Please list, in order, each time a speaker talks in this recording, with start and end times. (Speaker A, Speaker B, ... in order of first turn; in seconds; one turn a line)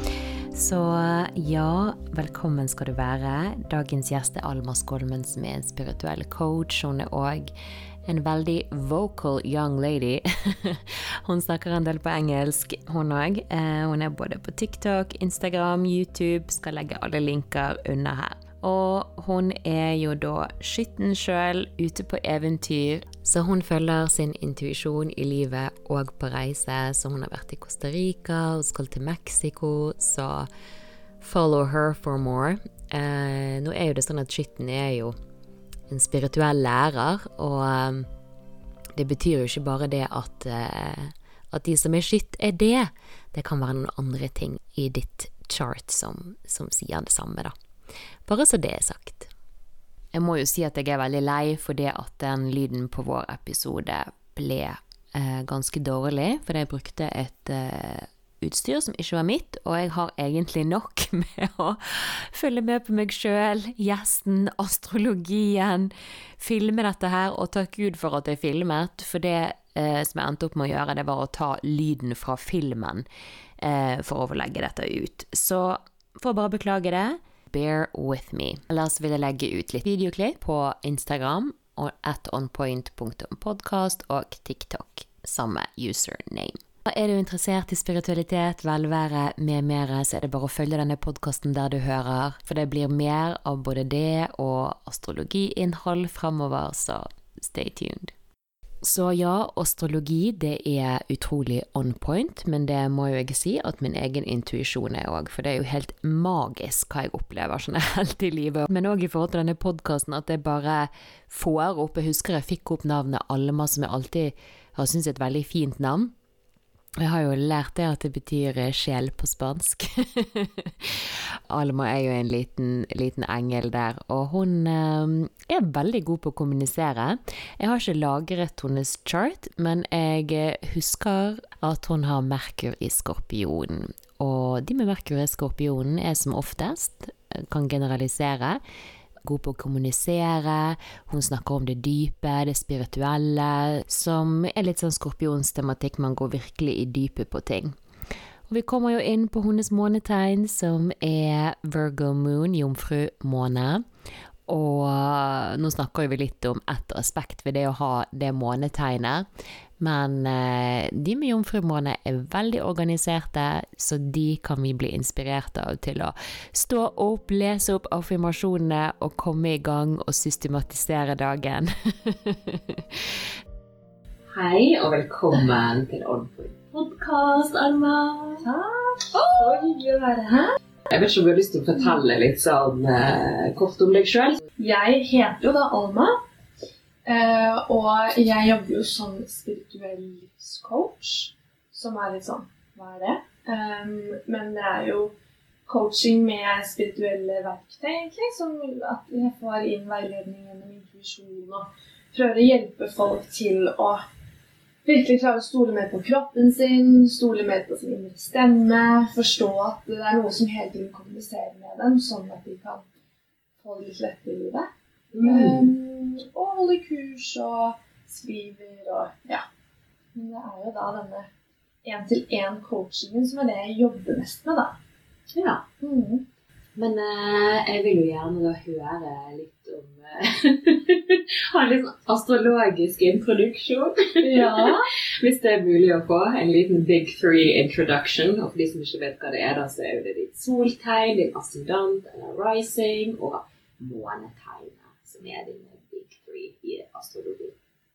Speaker A: 0.5-7.5
Speaker A: 8.1-30.5
Speaker A: 31.2-35.2
Speaker A: 35.9-38.1
Speaker A: 39.0-47.5
Speaker A: 48.3-49.3
Speaker A: 50.1-73.1
Speaker A: 73.6-98.2
Speaker A: 98.8-116.1
Speaker A: 117.0-138.6
Speaker A: 139.2-147.8
Speaker A: 148.5-153.9
Speaker A: 154.5-159.3
Speaker A: 159.8-173.3
Speaker B: 174.3-178.5
Speaker C: 178.4-180.6
Speaker B: 179.1-179.8
Speaker B: 180.9-184.4
Speaker C: 184.6-186.2
Speaker C: 187.1-195.2
Speaker C: 195.7-204.0
Speaker C: 204.8-212.9
Speaker C: 213.6-214.7
Speaker B: 215.1-215.7
Speaker C: 215.2-219.4
Speaker C: 220.2-221.3
Speaker C: 221.8-224.8
Speaker B: 225.3-225.6
Speaker C: 225.8-226.2
Speaker B: 226.8-247.6
Speaker C: 234.2-234.9